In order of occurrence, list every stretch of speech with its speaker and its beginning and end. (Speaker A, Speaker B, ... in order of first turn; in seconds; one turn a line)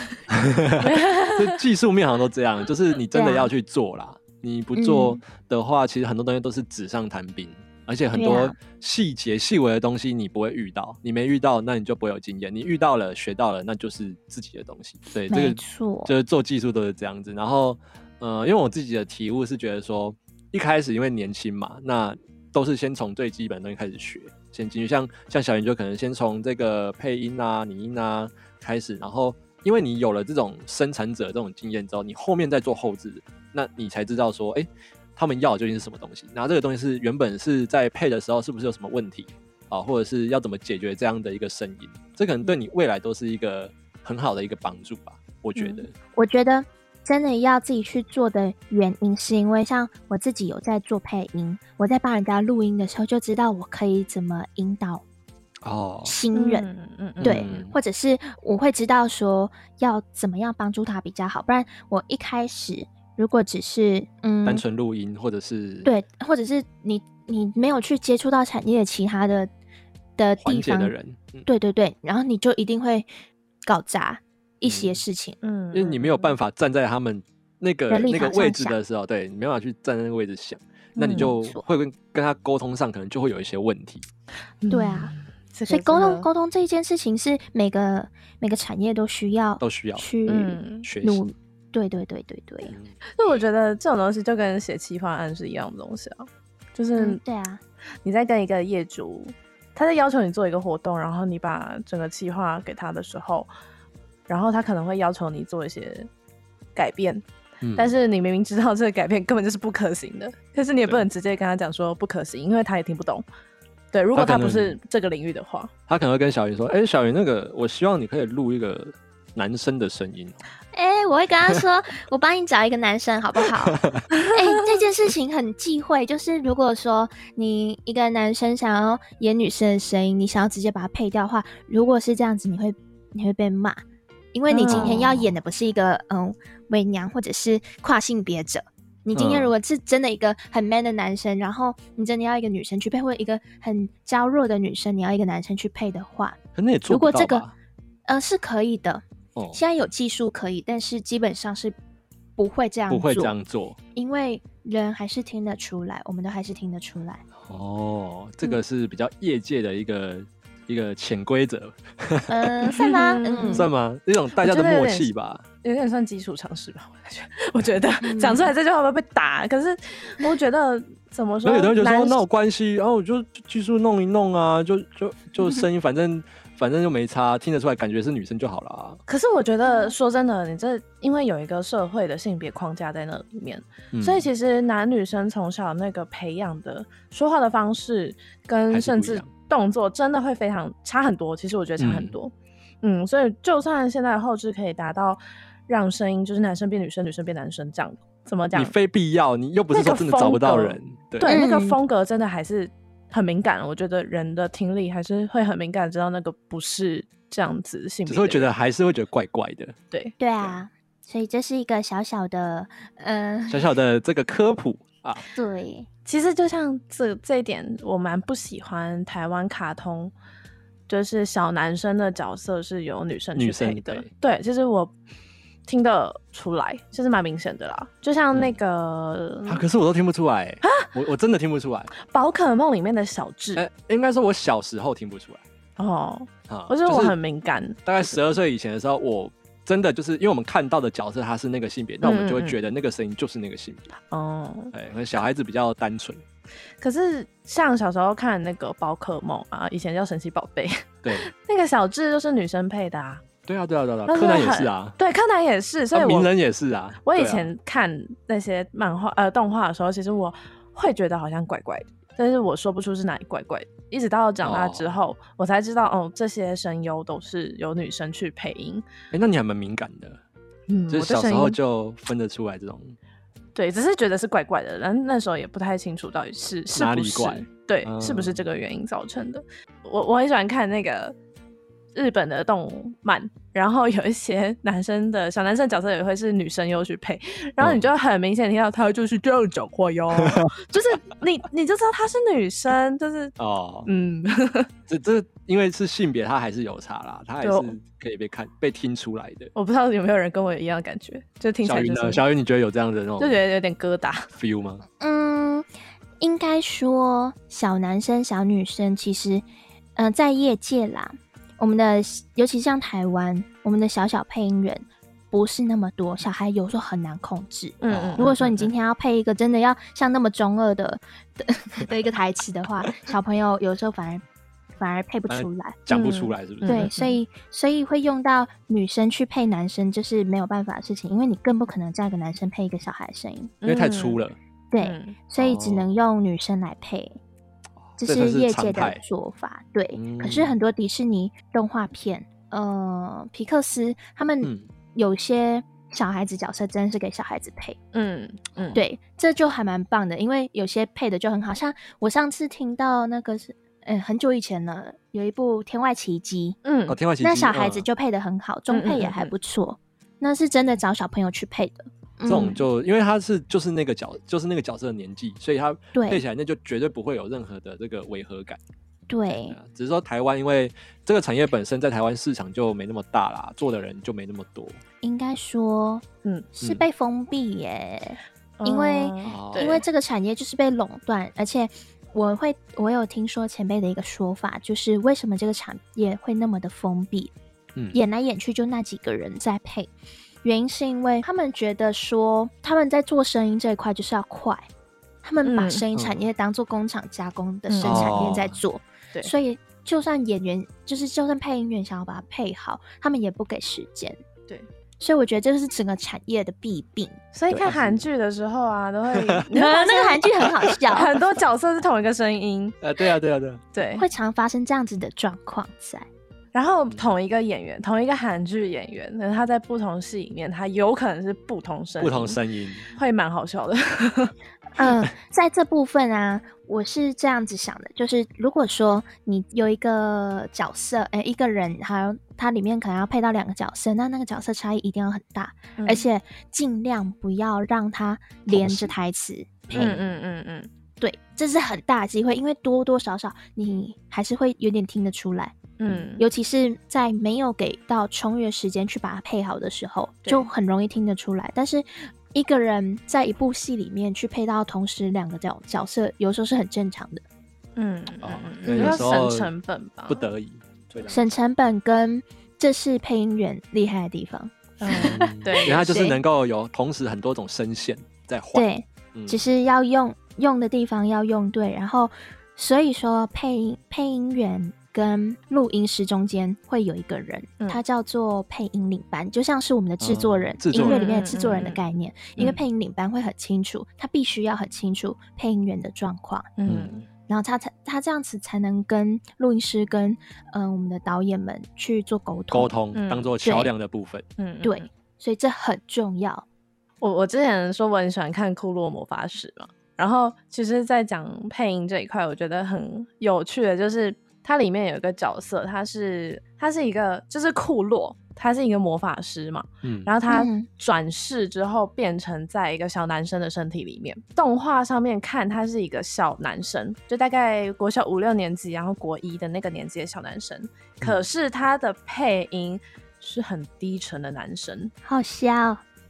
Speaker A: 0.3-45.9
Speaker B: 0.8-1.6
Speaker C: 3.1-3.5
Speaker C: 4.8-5.2
Speaker C: 8.1-8.6
Speaker C: 15.3-16.1
Speaker B: 45.6-45.9
Speaker C: 46.1-55.0
Speaker A: 55.6-56.1
Speaker C: 56.0-56.7
Speaker B: 56.3-57.5
Speaker A: 57.2-57.7
Speaker C: 57.2-64.6
Speaker A: 64.5-65.9
Speaker C: 65.8-69.5
Speaker C: 70.2-70.9
Speaker A: 70.4-71.5
Speaker C: 71.5-73.1
Speaker C: 73.7-75.4
Speaker A: 74.7-75.0
Speaker B: 75.4-76.4
Speaker A: 75.7-84.0
Speaker C: 77.9-78.8
Speaker B: 81.0-81.3
Speaker C: 81.1-81.6
Speaker B: 84.6-86.3
Speaker C: 84.7-85.1
Speaker C: 85.7-92.8
Speaker A: 89.6-90.1
Speaker B: 90.3-90.9
Speaker A: 90.8-91.2
Speaker A: 92.7-93.0
Speaker B: 93.2-97.2
Speaker C: 97.0-97.6
Speaker B: 98.0-103.5
Speaker B: 104.3-106.1
Speaker B: 106.8-107.2
Speaker A: 107.6-107.9
Speaker B: 107.8-113.3
Speaker B: 113.9-115.7
Speaker A: 114.1-114.8
Speaker A: 115.9-120.4
Speaker C: 120.7-133.8
Speaker A: 123.4-124.0
Speaker C: 134.3-146.4
Speaker B: 134.5-135.2
Speaker A: 134.7-135.3
Speaker A: 139.1-139.5
Speaker A: 146.6-147.5
Speaker C: 146.9-147.4
Speaker C: 148.1-151.8
Speaker A: 149.4-149.6
Speaker C: 152.4-153.3
Speaker A: 152.9-153.8
Speaker C: 153.9-157.2
Speaker A: 157.5-162.8
Speaker C: 162.3-163.7
Speaker B: 162.8-163.7
Speaker A: 163.5-165.4
Speaker B: 164.4-165.1
Speaker B: 165.6-172.2
Speaker C: 168.0-168.5
Speaker A: 171.4-179.0
Speaker B: 179.1-198.8
Speaker C: 179.7-179.9
Speaker A: 183.9-184.3
Speaker A: 188.7-189.3
Speaker A: 191.8-192.1
Speaker A: 198.5-201.4
Speaker B: 199.7-208.5
Speaker C: 201.2-201.8
Speaker A: 208.1-209.8
Speaker B: 209.9-210.2
Speaker C: 210.2-213.7
Speaker A: 213.5-215.2
Speaker C: 215.3-215.9
Speaker B: 216.1-220.1
Speaker B: 220.9-224.9
Speaker A: 223.3-224.1
Speaker B: 225.7-229.6
Speaker A: 229.5-231.9
Speaker B: 232.1-233.6
Speaker A: 233.6-235.4
Speaker B: 235.8-238.2
Speaker A: 236.5-237.2
Speaker A: 237.9-243.9
Speaker B: 242.0-242.6
Speaker B: 244.1-244.7
Speaker A: 244.7-246.2
Speaker B: 246.8-253.2
Speaker A: 253.5-255.0
Speaker B: 254.1-256.3
Speaker A: 255.9-257.5
Speaker B: 257.1-268.9
Speaker A: 264.4-264.9
Speaker A: 269.1-270.2
Speaker B: 270.7-271.6
Speaker A: 270.9-273.0
Speaker B: 273.6-281.1
Speaker A: 276.7-278.4
Speaker B: 281.9-293.3
Speaker A: 287.6-287.9
Speaker A: 293.4-293.9
Speaker B: 293.9-294.7
Speaker A: 294.9-299.5
Speaker B: 297.4-297.8
Speaker B: 299.6-302.2
Speaker A: 301.6-303.4
Speaker B: 303.2-304.3
Speaker A: 304.4-304.8
Speaker C: 305.0-305.7
Speaker C: 306.2-309.4
Speaker C: 310.0-324.2
Speaker B: 317.8-318.7
Speaker A: 317.9-318.3
Speaker C: 324.8-325.8
Speaker A: 325.3-326.9
Speaker B: 325.9-327.2
Speaker C: 326.7-333.5
Speaker B: 333.6-334.2
Speaker A: 333.6-334.4
Speaker C: 334.7-337.2
Speaker B: 334.8-335.2
Speaker A: 335.4-335.9
Speaker A: 337.9-339.0
Speaker C: 338.0-347.8
Speaker A: 339.9-340.6
Speaker A: 344.4-344.7
Speaker B: 347.9-348.8
Speaker C: 348.8-356.6
Speaker B: 356.6-357.0
Speaker A: 356.9-357.9
Speaker C: 357.2-362.7
Speaker B: 358.7-359.3
Speaker A: 362.3-368.6
Speaker C: 365.9-366.2
Speaker C: 369.1-369.6
Speaker A: 369.5-374.8
Speaker C: 375.0-376.0
Speaker C: 376.6-387.3
Speaker B: 378.6-379.9
Speaker A: 379.2-379.7
Speaker C: 387.9-389.9
Speaker C: 390.4-394.6
Speaker C: 395.2-404.2
Speaker B: 395.4-395.8
Speaker B: 397.7-398.3
Speaker A: 397.8-398.6
Speaker C: 405.0-407.6
Speaker B: 407.3-412.8
Speaker A: 407.6-408.0
Speaker C: 409.5-411.1
Speaker A: 412.8-413.6
Speaker B: 413.7-414.1
Speaker C: 413.9-416.1
Speaker B: 416.5-422.4
Speaker A: 422.0-422.9
Speaker B: 422.9-424.3
Speaker C: 424.8-440.0
Speaker B: 435.8-436.1
Speaker A: 438.5-439.0
Speaker A: 439.7-440.0
Speaker B: 439.7-440.7
Speaker C: 441.0-445.6
Speaker B: 445.8-446.2
Speaker C: 446.2-457.2
Speaker B: 450.2-450.5
Speaker B: 457.8-460.3
Speaker A: 458.2-459.5
Speaker A: 460.1-461.2
Speaker C: 461.0-466.1
Speaker B: 464.8-466.2
Speaker A: 464.9-469.5
Speaker C: 468.5-486.5
Speaker A: 480.0-481.2
Speaker B: 480.7-481.8
Speaker B: 486.6-487.1
Speaker A: 486.7-486.9
Speaker C: 487.3-492.7
Speaker A: 492.5-494.2
Speaker B: 492.9-493.3
Speaker C: 493.4-493.7
Speaker B: 494.4-494.9
Speaker C: 494.6-496.4
Speaker B: 497.0-524.9
Speaker A: 509.8-510.1
Speaker C: 510.3-510.7
Speaker C: 525.1-525.8